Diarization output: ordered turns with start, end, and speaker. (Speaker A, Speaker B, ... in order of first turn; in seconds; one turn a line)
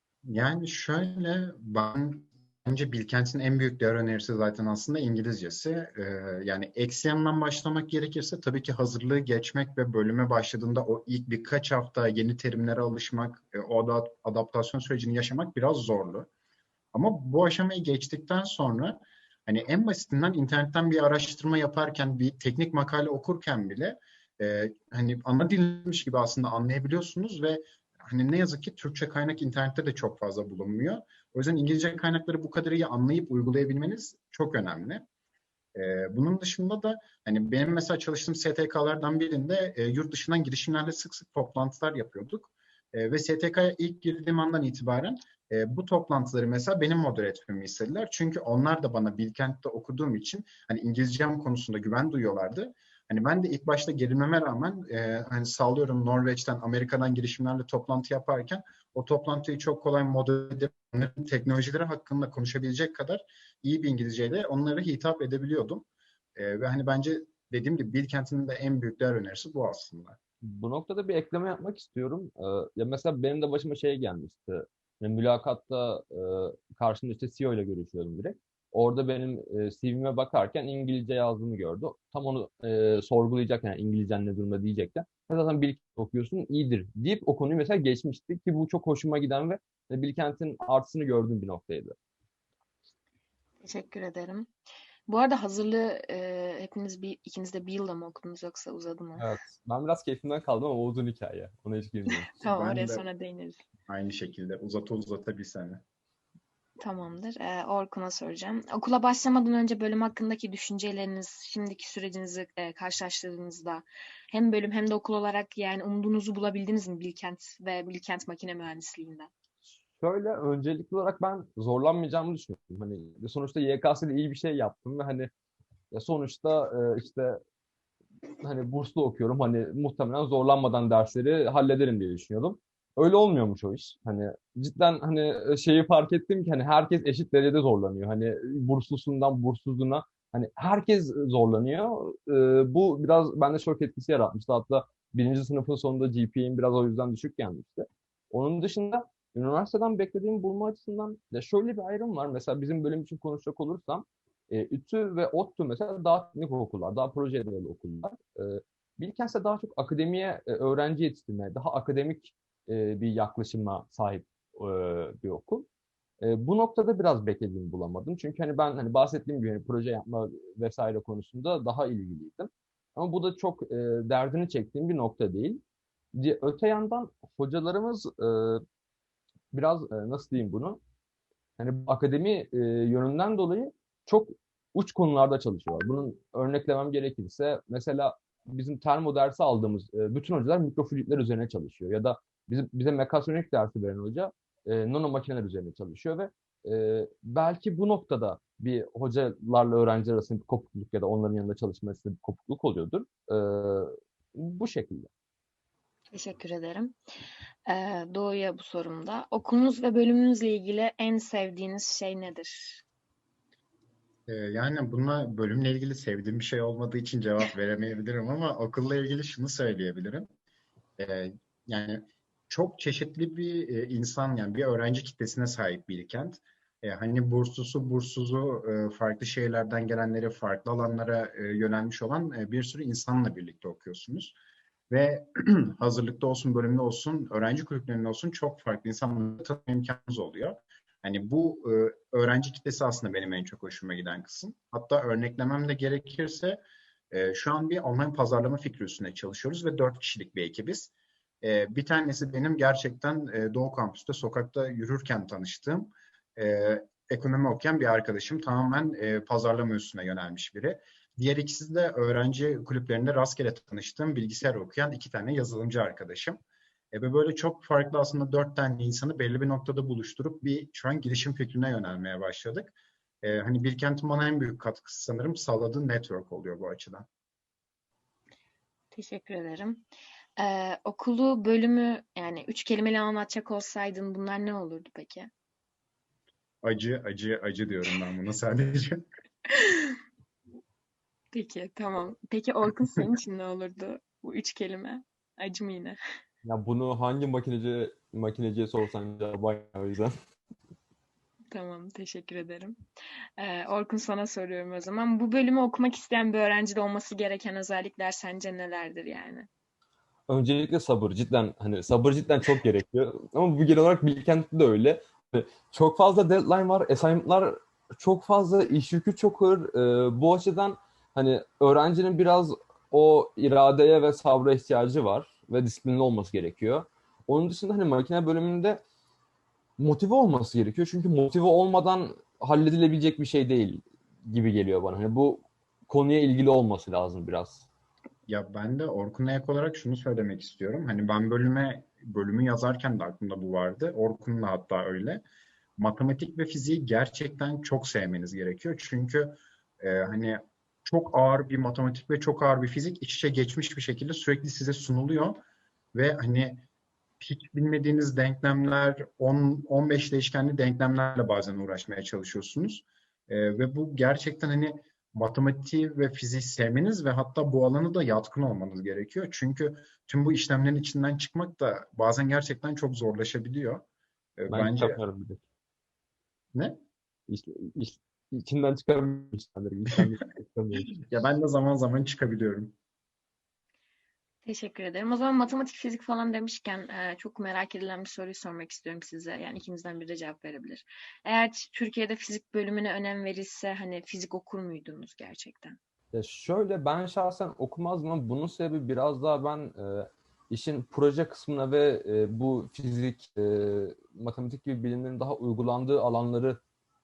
Speaker A: 0.2-16.3
Speaker A: 16.9-35.0
Speaker A: 35.7-70.2
Speaker B: 70.4-92.0
Speaker C: 93.6-94.5
Speaker C: 95.1-99.3
Speaker B: 99.2-102.3
Speaker C: 102.1-103.7
Speaker A: 102.4-103.0
Speaker A: 103.9-105.8
Speaker C: 106.8-119.3
Speaker B: 120.0-125.3
Speaker B: 125.9-127.4
Speaker B: 128.4-165.7
Speaker B: 166.2-175.6
Speaker B: 176.1-178.6
Speaker B: 179.5-180.8
Speaker B: 181.6-205.1
Speaker C: 206.1-207.0
Speaker C: 207.7-212.8
Speaker A: 214.3-220.3
Speaker A: 221.0-234.3
Speaker A: 234.9-246.6
Speaker A: 247.1-250.9
Speaker A: 251.4-266.4
Speaker A: 266.9-277.1
Speaker C: 278.9-279.8
Speaker C: 280.4-285.3
Speaker A: 286.6-289.1
Speaker C: 291.3-296.0
Speaker B: 296.4-300.1
Speaker C: 301.5-302.8
Speaker C: 303.4-309.5
Speaker B: 310.3-328.8
Speaker B: 329.8-337.7
Speaker A: 338.3-345.2
Speaker A: 345.8-355.4
Speaker A: 355.9-356.6
Speaker A: 357.2-373.8
Speaker A: 374.4-375.0
Speaker B: 374.5-375.4
Speaker A: 376.5-376.8
Speaker B: 377.3-381.0
Speaker A: 380.9-382.8
Speaker C: 384.4-395.8
Speaker B: 396.1-406.6